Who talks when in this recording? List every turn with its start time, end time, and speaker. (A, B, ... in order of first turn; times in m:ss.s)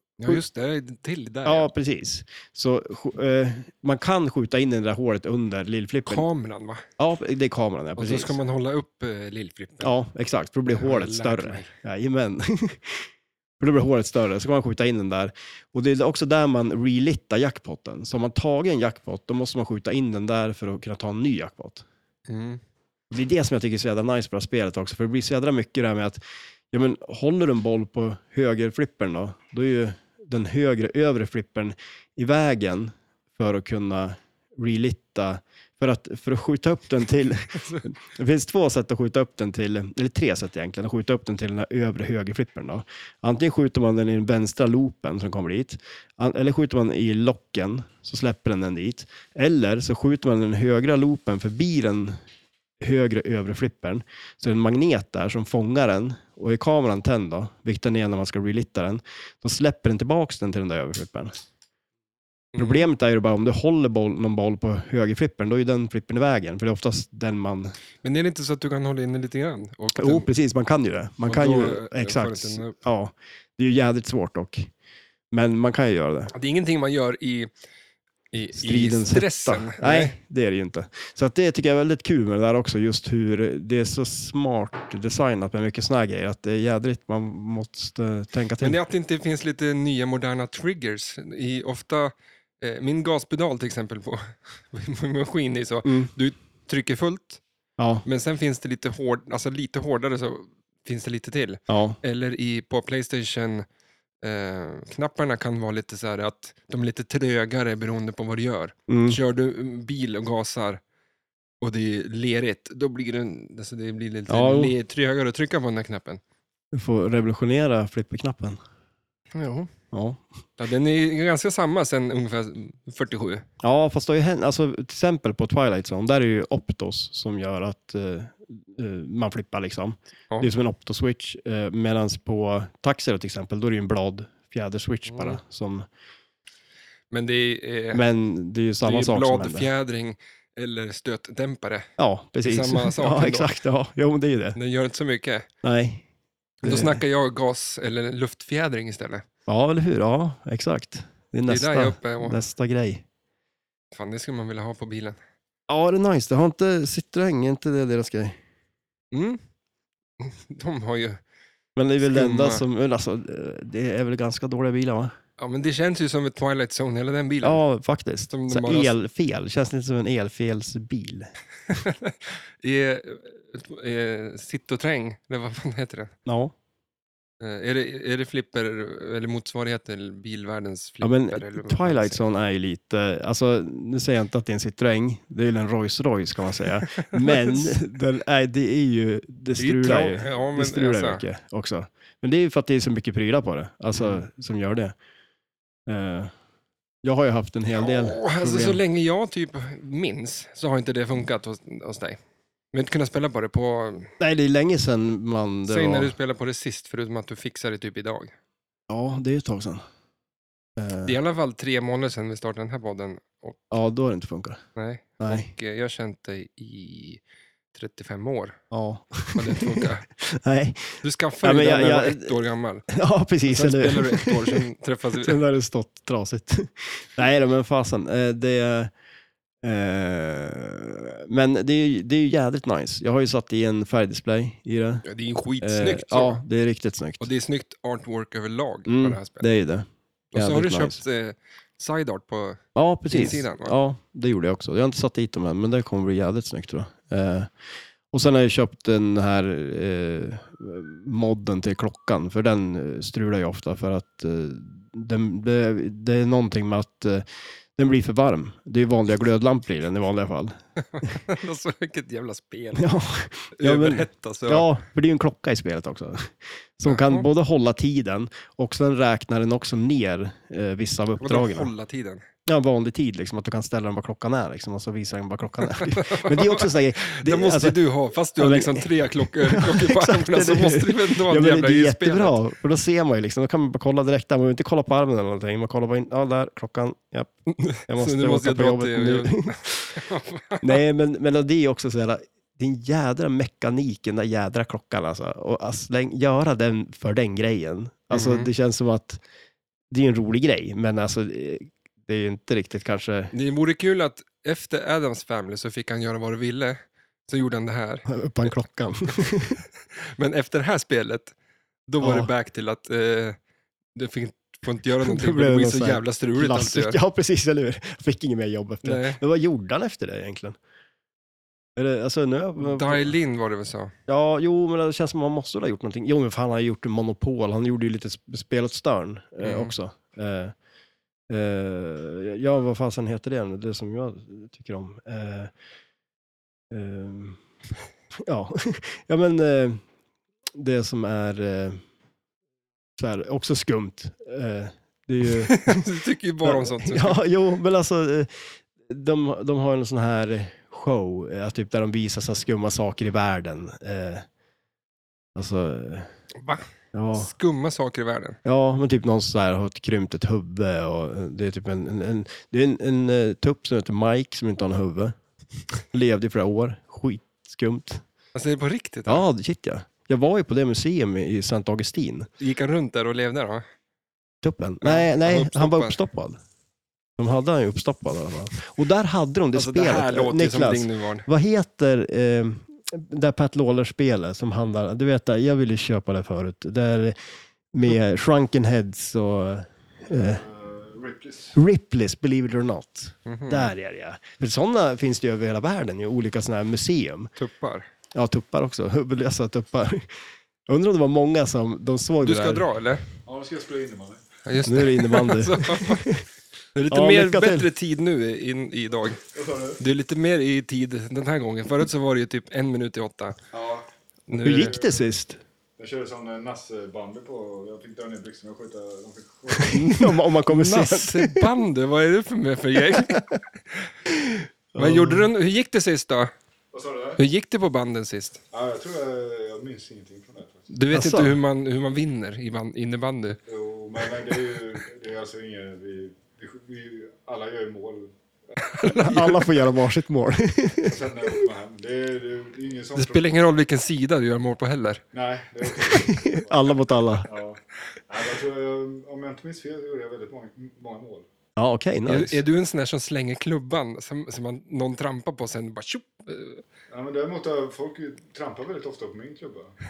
0:00.2-0:01.7 A
0:01.4-0:06.3 B
0:06.1-0:06.8 A
0:07.0-0:08.4 B
0:08.0-0:09.9 A
0:09.8-0:13.1 B
0:10.7-0:11.7 A
0:13.6-0:21.8 B
0:22.3-0:22.6 A
0:23.1-0:26.2 B
0:26.7-0:52.2 B
0:37.5-0:37.9 A
0:52.8-1:01.3 B
1:02.5-1:02.9 A
1:02.6-1:07.7 B
1:08.0-1:10.3 A
1:10.0-1:14.7 B
1:11.2-1:12.8 A
1:15.3-1:16.3 B
1:16.3-1:17.5 A
1:18.3-1:20.2 A
1:18.6-1:28.8 B
1:28.6-1:37.4 A
1:35.8-1:36.1 B
1:37.8-1:38.0 B
1:38.0-1:43.7 A
1:41.7-1:42.0 B
1:44.2-1:50.8 A
1:48.9-1:49.2 B
1:51.6-1:56.2 A
1:54.3-1:54.8 B
1:56.7-1:58.6 B
1:59.3-1:59.7 A
1:59.9-2:00.2 B
2:00.6-2:03.4 A
2:03.6-2:15.9 B
2:15.1-2:15.4 A
2:17.1-2:18.0 A
2:17.9-2:19.7 B
2:18.8-2:21.9 A
2:22.0-2:24.6 B
2:22.4-2:23.5 A
2:24.6-2:25.5 A
2:25.6-2:26.0 B
2:26.6-2:27.0 B
2:26.6-2:29.2 A
2:29.5-2:33.0 B
2:31.5-2:32.4 A
2:33.9-2:35.2 A
2:35.7-2:38.4 B
2:39.1-2:39.4 A
2:40.2-2:41.2 A
2:41.8-2:45.1 B
2:42.0-2:42.6 A
2:45.4-2:47.6 A
2:47.4-2:51.8 B
2:48.3-2:48.9 A
2:51.7-2:56.1 A
2:56.3-2:56.5 B
2:57.4-3:02.2 A
3:01.0-3:15.0 B
3:06.8-3:07.8 A
3:09.6-3:11.2 A
3:15.9-3:16.3 B
3:17.0-3:18.8 B
3:17.8-3:22.2 A
3:22.7-3:24.1 A
3:24.2-3:26.1 B
3:25.7-3:28.3 A
3:28.9-3:29.8 B
3:30.8-3:31.2 B
3:31.0-3:33.7 A
3:33.7-3:34.6 B
3:34.8-3:37.2 A
3:35.2-3:35.5 B
3:37.7-3:38.6 A
3:38.7-3:42.3 B
3:39.4-3:40.1 A
3:41.0-3:42.8 A
3:42.9-3:44.6 B
3:43.5-3:45.4 A
3:45.2-3:48.9 B
3:49.6-3:55.0 B
3:55.0-3:56.4 A
3:55.6-3:57.3 B
3:57.2-3:59.5 A
3:58.9-4:01.0 B
4:00.3-4:03.8 A
4:02.8-4:07.5 B
4:08.1-4:17.2 B
4:17.8-4:20.6 B
4:20.9-4:22.9 A
4:22.8-4:31.7 B
4:23.6-4:24.7 A
4:26.8-4:27.3 A
4:31.2-4:32.2 A
4:32.5-4:37.8 B
4:35.6-4:42.4 A
4:38.4-4:47.3 B
4:47.5-4:50.8 A
4:47.9-4:50.0 B
4:50.6-4:59.2 B
4:58.1-4:58.5 A
4:59.9-5:03.3 B
5:03.3-5:08.6 A
5:08.1-5:09.6 B
5:10.0-5:11.3 A
5:11.9-5:13.4 A
5:12.0-5:12.3 B
5:14.0-5:17.0 A
5:15.0-5:20.6 B
5:18.8-5:19.2 A
5:21.8-5:23.2 B
5:22.6-5:23.9 A
5:24.1-5:30.5 B
5:29.4-5:29.7 A
5:31.3-5:35.5 B
5:36.7-5:37.4 B
5:38.2-5:39.8 B
5:40.6-5:41.8 B
5:43.0-5:45.8 B
5:45.5-5:47.2 A
5:46.4-5:54.2 B
5:55.4-5:56.1 B
5:56.4-5:58.4 A
5:56.9-5:57.3 B
5:58.4-6:05.1 B
6:05.9-6:08.0 B
6:08.4-6:09.2 A
6:09.1-6:12.3 B
6:12.4-6:13.6 A
6:14.4-6:16.4 B
6:14.8-6:16.0 A
6:17.2-6:27.2 B
6:19.5-6:21.3 A
6:27.7-6:30.4 B
6:30.1-6:31.6 C
6:31.6-6:37.3 B
6:33.3-6:33.7 A
6:37.4-6:37.9 A
6:38.1-6:40.1 B
6:40.7-6:42.6 B
6:42.2-6:43.0 A
6:43.2-6:44.2 C
6:44.4-6:46.1 A
6:44.6-6:46.2 B
6:46.8-6:49.2 A
6:46.9-6:47.7 B
6:49.2-6:49.8 C
6:49.8-6:53.4 A
6:53.5-6:53.9 C
6:54.3-6:54.7 A
6:54.4-6:55.0 C
6:54.4-6:55.4 B
6:55.8-7:00.0 C
6:59.6-7:01.5 B
6:59.7-7:03.8 A
7:02.9-7:03.4 B
7:04.1-7:05.3 B
7:04.8-7:06.3 A
7:06.7-7:07.2 C
7:07.2-7:08.4 A
7:08.5-7:10.7 C
7:10.7-7:13.4 A
7:10.9-7:11.4 B
7:13.5-7:18.1 C
7:18.6-7:19.5 A
7:18.8-7:21.1 B
7:20.8-7:23.3 C
7:23.0-7:25.0 A
7:25.1-7:26.7 C
7:25.9-7:27.3 B
7:27.2-7:31.3 C
7:31.6-7:32.4 B
7:32.1-7:36.6 A
7:36.9-7:39.7 C